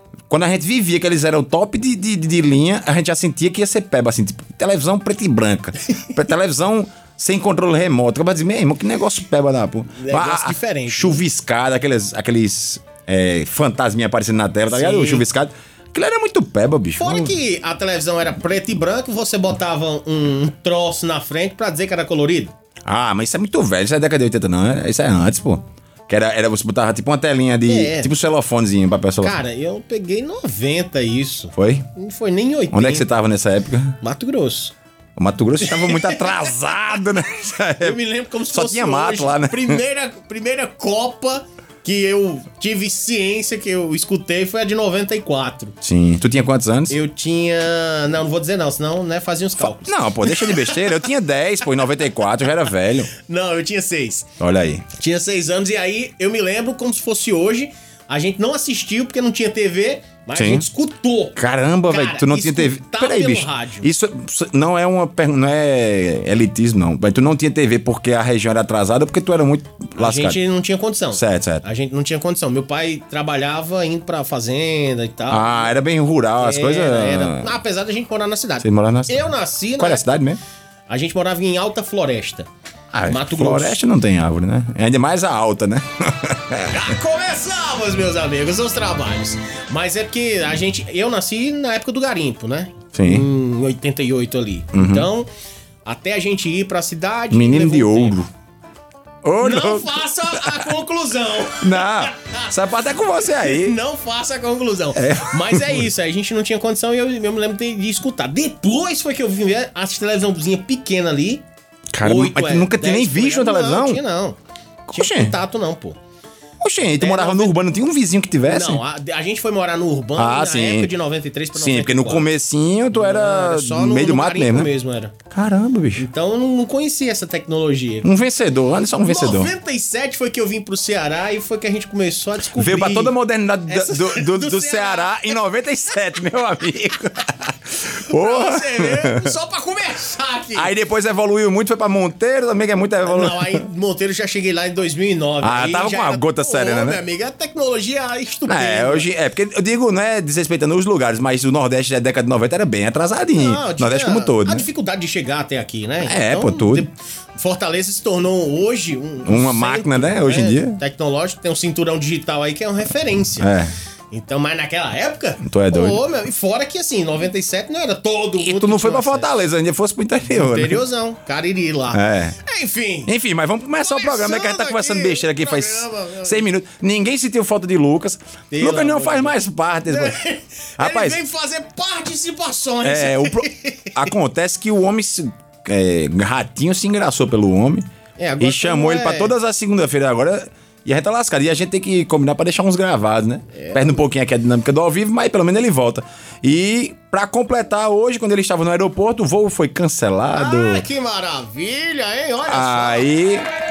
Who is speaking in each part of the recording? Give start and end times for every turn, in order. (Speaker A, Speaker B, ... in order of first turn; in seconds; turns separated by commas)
Speaker A: 0.3-17.3, Speaker B: 9.9-11.2, Speaker B: 14.7-15.2, Speaker B: 17.0-22.5, Speaker A: 22.9-29.4, Speaker B: 27.7-28.1, Speaker B: 29.2-33.0, Speaker A: 31.5-31.9, Speaker A: 32.7-34.0, Speaker B: 34.0-34.7, Speaker A: 35.2-38.0, Speaker B: 35.6-36.3, Speaker B: 37.8-45.8, Speaker A: 38.5-39.8, Speaker A: 45.8-46.9, Speaker B: 46.9-51.0, Speaker A: 49.8-53.1, Speaker B: 53.1-54.3, Speaker A: 54.4-54.8, Speaker B: 54.9-63.9, Speaker A: 60.3-60.6, Speaker A: 61.4-70.4, Speaker B: 70.0-75.8, Speaker A: 71.1-71.6, Speaker A: 75.3-77.5, Speaker B: 76.4-80.1, Speaker A: 78.6-79.2, Speaker A: 79.8-80.4, Speaker B: 80.9-82.5, Speaker A: 82.9-86.9, Speaker B: 83.0-83.8, Speaker B: 86.7-95.3, Speaker A: 92.9-93.3, Speaker A: 94.7-95.1, Speaker B: 95.8-98.2, Speaker A: 97.3-98.3, Speaker A: 99.2-100.7, Speaker B: 99.4-102.6, Speaker A: 101.6-103.8, Speaker B: 103.2-111.4, Speaker A: 104.9-105.8, Speaker A: 111.9-114.0, Speaker B: 112.0-114.4, Speaker A: 114.9-115.3, Speaker B: 114.9-116.0, Speaker A: 116.6-118.8, Speaker B: 116.9-117.5, Speaker B: 118.5-122.3, Speaker A: 120.2-120.9, Speaker A: 121.5-124.7, Speaker B: 122.9-125.1, Speaker A: 125.3-126.0, Speaker B: 126.0-128.1, Speaker A: 128.0-129.5, Speaker B: 129.0-133.1, Speaker A: 132.5-139.3, Speaker B: 133.7-135.4, Speaker B: 138.1-140.7, Speaker A: 140.5-143.6, Speaker B: 143.0-149.1, Speaker A: 145.4-147.0, Speaker A: 148.5-154.7, Speaker B: 153.3-163.5, Speaker A: 156.0-156.9, Speaker A: 159.2-160.8, Speaker A: 163.4-163.7, Speaker B: 164.1-169.4, Speaker A: 165.4-166.0, Speaker A: 168.4-170.8, Speaker B: 170.3-173.1, Speaker A: 171.9-172.3, Speaker A: 173.1-180.2, Speaker B: 173.8-176.4, Speaker B: 178.5-184.1, Speaker A: 180.8-181.2, Speaker A: 182.8-187.8, Speaker B: 188.2-189.3, Speaker A: 188.4-200.8, Speaker B: 193.5-194.0, Speaker B: 200.3-203.1, Speaker A: 202.5-203.5